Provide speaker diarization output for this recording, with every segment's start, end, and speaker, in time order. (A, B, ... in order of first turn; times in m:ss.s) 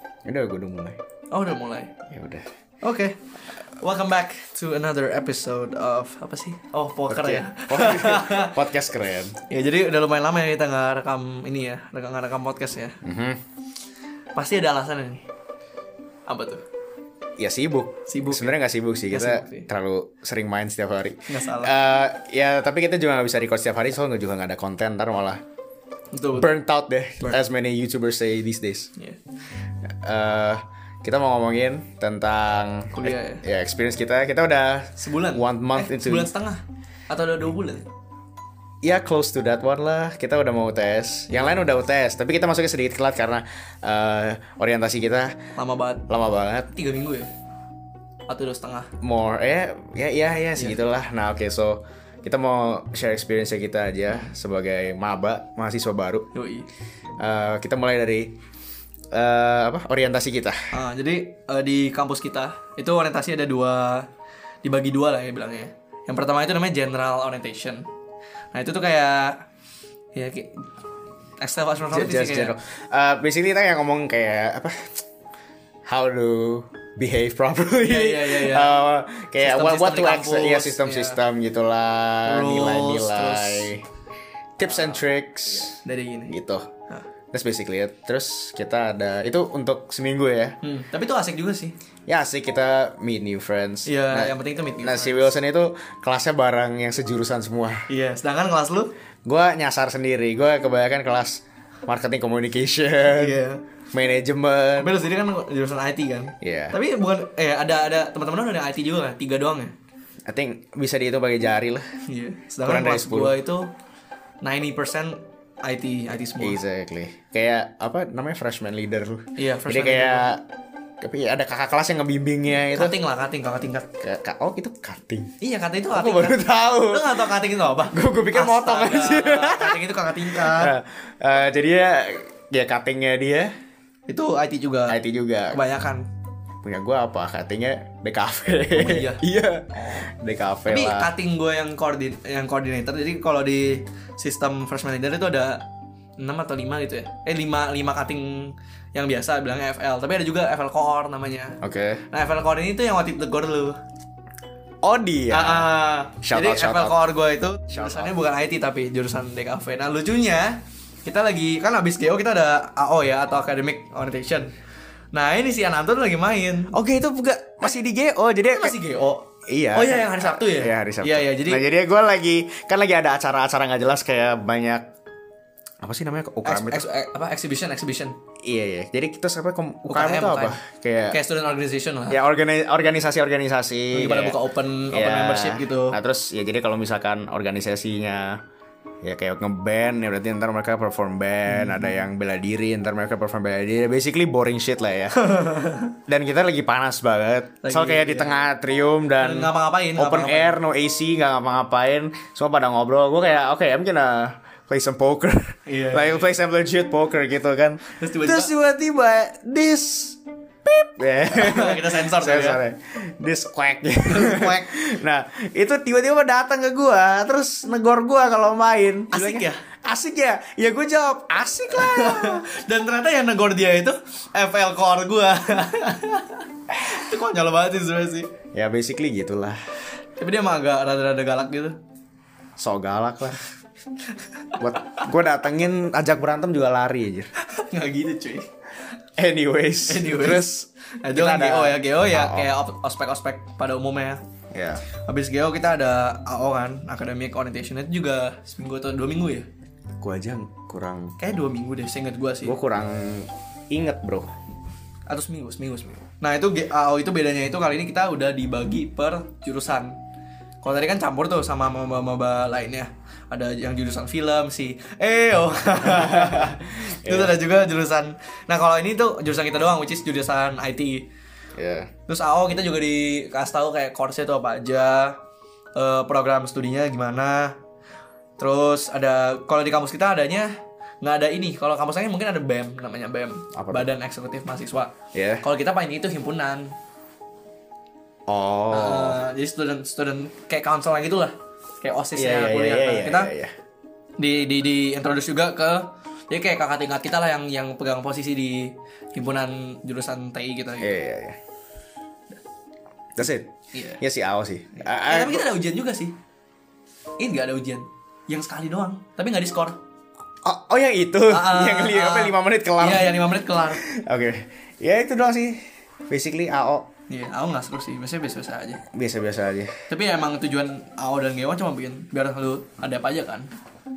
0:00.3-0:01.0 A
0:01.3-0:01.9 B
0:02.1-0:02.5 A
0:02.8-0:08.6 B
0:07.1-0:09.4 A
0:09.5-0:13.0 B
0:13.0-0:13.4 A
0:14.4-0:15.2 B
0:16.3-0:16.6 B
0:17.4-0:25.4 A
0:18.1-0:18.5 B
0:19.1-0:19.7 B
0:21.3-0:21.8 B
0:26.1-0:26.5 B
0:26.4-0:28.9 A
0:29.9-0:36.3 A
0:33.0-0:33.4 B
0:35.0-0:37.9 B
0:38.8-0:45.4 A
0:41.3-0:41.6 B
0:45.6-0:46.0 B
0:46.1-0:46.7 A
0:46.7-0:47.3 B
0:48.3-0:48.9 B
0:49.0-0:56.3 A
0:50.6-0:50.8 B
0:56.3-0:56.7 B
0:57.2-0:58.3 A
0:59.1-1:00.6 A
1:00.7-1:04.1 B
1:04.6-1:07.9 B
1:08.5-1:09.4 B
1:10.2-1:10.6 B
1:11.4-1:12.6 B
1:11.9-1:15.0 A
1:15.9-1:23.9 A
1:17.8-1:18.8 B
1:19.4-1:21.2 B
1:22.2-1:23.7 B
1:24.6-1:26.7 A
1:24.6-1:25.0 B
1:25.5-1:26.4 B
1:27.3-1:30.6 A
1:30.6-1:31.8 B
1:32.1-1:37.9 A
1:33.9-1:35.3 B
1:37.9-1:38.9 B
1:39.2-1:43.4 A
1:43.1-1:43.6 B
1:43.9-1:45.0 A
1:44.8-1:49.7 B
1:46.4-1:46.8 A
1:50.3-1:51.9 A
1:52.1-1:53.7 B
1:52.6-1:53.4 A
1:54.4-1:56.6 B
1:56.4-2:00.4 A
1:59.4-2:00.3 B
2:01.0-2:03.0 A
2:02.7-2:03.9 B
2:04.0-2:05.3 A
2:05.4-2:10.7 B
2:05.9-2:07.3 A
2:07.9-2:13.5 A
2:14.1-2:15.0 B
2:14.9-2:15.6 A
2:15.5-2:16.1 B
2:16.6-2:21.1 A
2:18.7-2:19.2 B
2:19.8-2:20.0 B
2:20.7-2:25.6 B
2:26.2-2:31.6 B
2:31.6-2:32.0 A
2:32.1-2:33.8 B
2:34.8-2:37.0 A
2:35.3-2:44.5 B
2:37.7-2:38.2 A
2:45.1-2:46.8 B
2:46.7-2:48.8 A
2:48.5-2:51.6 B
2:49.5-2:54.9 A
2:55.8-2:56.9 A
2:56.4-2:58.2 B
2:58.4-3:01.2 A
2:59.9-3:02.2 B
3:02.1-3:04.4 A
3:03.9-3:06.0 B
3:04.9-3:08.4 A
3:09.0-3:15.4 A
3:11.5-3:12.1 B
3:15.2-3:16.0 B
3:16.1-3:42.5 A
3:17.6-3:18.4 B
3:19.2-3:20.6 B
3:25.7-3:26.3 B
3:27.9-3:28.5 B
3:31.3-3:32.6 B
3:34.1-3:34.7 B
3:39.1-3:39.6 B
3:41.7-3:48.3 B
3:48.5-3:49.6 A
3:50.2-3:51.8 B
3:52.6-3:53.4 A
3:54.6-3:57.3 A
3:57.4-3:58.5 B
3:59.2-4:00.6 A
3:59.9-4:04.2 B
4:01.1-4:02.5 A
4:04.5-4:04.8 A
4:05.0-4:09.5 B
4:10.0-4:11.2 A
4:11.2-4:12.6 B
4:12.4-4:14.4 A
4:15.1-4:20.0 B
4:20.6-4:31.1 B
4:25.9-4:27.4 A
4:31.6-4:31.9 A
4:32.1-4:35.2 B
4:35.8-4:37.6 B
4:38.4-4:40.5 B
4:41.0-4:46.7 B
4:43.6-4:43.9 A
4:45.1-4:45.4 A
4:48.3-4:49.2 A
4:48.7-4:53.3 B
4:52.2-4:53.5 A
4:54.2-5:01.0 B
5:00.8-5:01.4 A
5:03.2-5:05.5 A
5:03.7-5:04.0 B
5:04.8-5:06.2 B
5:07.2-5:09.8 B
5:10.4-5:16.9 A
5:11.3-5:13.8 B
5:17.1-5:18.8 B
5:18.9-5:19.8 A
5:19.9-5:23.5 B